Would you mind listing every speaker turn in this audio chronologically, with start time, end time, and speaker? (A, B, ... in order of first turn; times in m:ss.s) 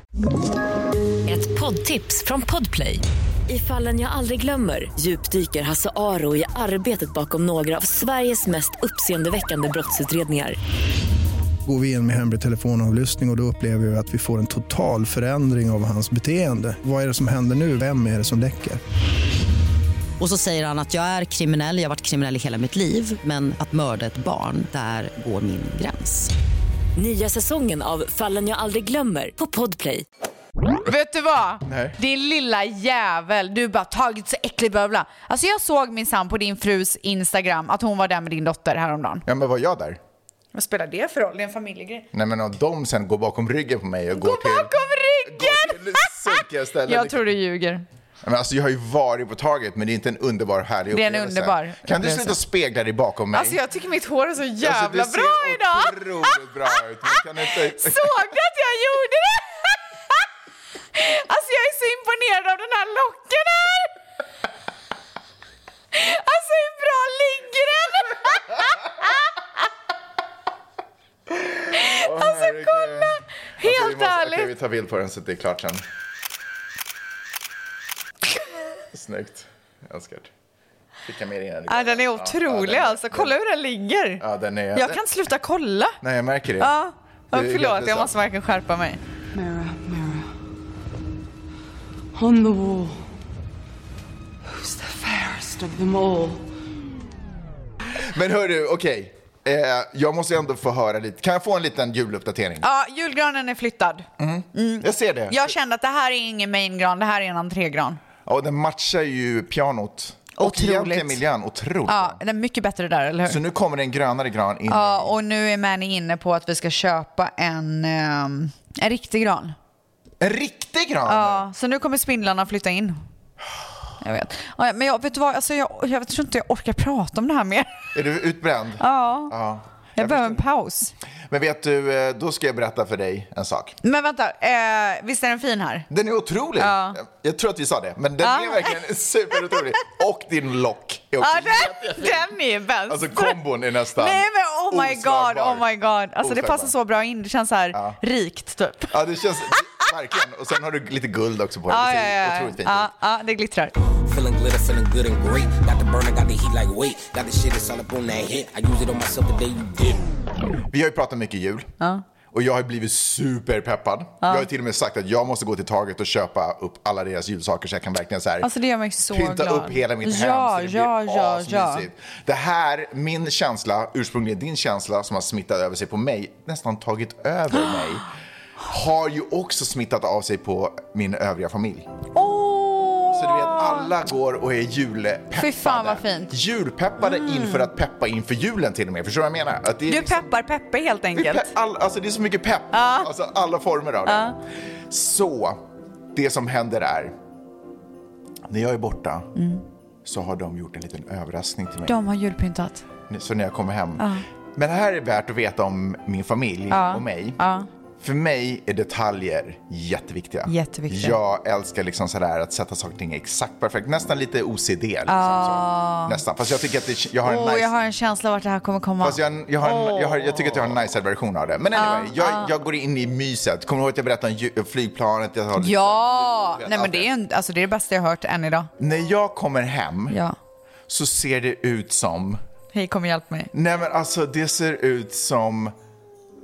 0:01.2-0:10.6 A
0:11.6-0:18.8 B
0:20.4-0:21.2 C
0:21.8-0:26.3 C
0:27.0-0:30.0 A
0:30.8-0:39.2 D
0:31.6-0:32.0 E
0:39.2-0:40.0 E
0:40.5-0:42.0 D
0:42.1-0:44.7 E
0:44.1-0:47.8 D
0:45.2-0:47.3 E
0:48.2-0:53.6 E
0:50.9-0:52.4 D
0:53.3-1:00.2 D
0:54.6-0:58.2 E
1:00.9-1:03.9 D
1:05.9-1:09.1 D
1:11.3-1:15.8 E
1:11.7-1:14.5 D
1:18.9-1:20.3 E
1:21.0-1:23.3 E
1:21.7-1:24.2 D
1:24.2-1:25.0 E
1:24.7-1:26.0 D
1:26.0-1:26.7 E
1:26.6-1:29.0 D
1:27.3-1:28.1 E
1:29.3-1:30.3 F
1:32.1-1:33.0 F
1:34.5-1:36.5 F
1:37.9-1:42.6 E
1:42.6-1:48.0 D
1:44.2-1:45.5 E
1:48.2-1:52.2 E
1:50.4-1:51.2 D
1:51.9-1:53.4 D
1:53.2-1:55.1 E
1:54.7-1:59.6 D
2:00.2-2:01.4 E
2:01.1-2:03.0 D
2:04.0-2:07.9 D
2:07.9-2:10.4 E
2:08.8-2:09.3 D
2:10.0-2:10.9 D
2:11.3-2:13.8 E
2:13.8-2:15.9 D
2:15.9-2:22.3 E
2:16.6-2:17.0 D
2:18.2-2:18.8 D
2:21.2-2:23.4 D
2:22.9-2:25.7 E
2:23.9-2:28.9 D
2:26.2-2:26.7 E
2:27.7-2:28.0 E
2:28.9-2:32.9 E
2:31.7-2:33.7 D
2:34.0-2:40.0 G
2:40.7-2:41.7 E
2:42.3-2:48.5 E
2:48.4-2:51.8 D
2:49.1-2:58.1 E
2:58.7-3:01.9 E
3:02.1-3:03.9 D
3:03.1-3:10.3 E
3:05.3-3:06.3 D
3:07.0-3:07.7 D
3:09.9-3:11.5 D
3:11.1-3:14.3 E
3:12.7-3:13.1 D
3:14.0-3:14.4 D
3:14.9-3:15.6 E
3:16.1-3:17.1 E
3:18.5-3:19.3 E
3:19.3-3:19.6 D
3:20.0-3:22.0 E
3:21.8-3:22.8 D
3:23.1-3:27.4 E
3:24.0-3:24.2 D
3:26.7-3:27.7 D
3:28.0-3:37.7 E
3:30.5-3:31.2 D
3:35.1-3:36.2 D
3:37.2-3:40.4 D
3:39.0-3:47.1 E
3:41.7-3:42.5 D
3:45.6-3:48.7 D
3:48.8-3:50.2 E
3:50.1-3:50.4 D
3:50.9-3:52.4 E
3:52.7-3:53.5 D
3:53.5-3:55.7 E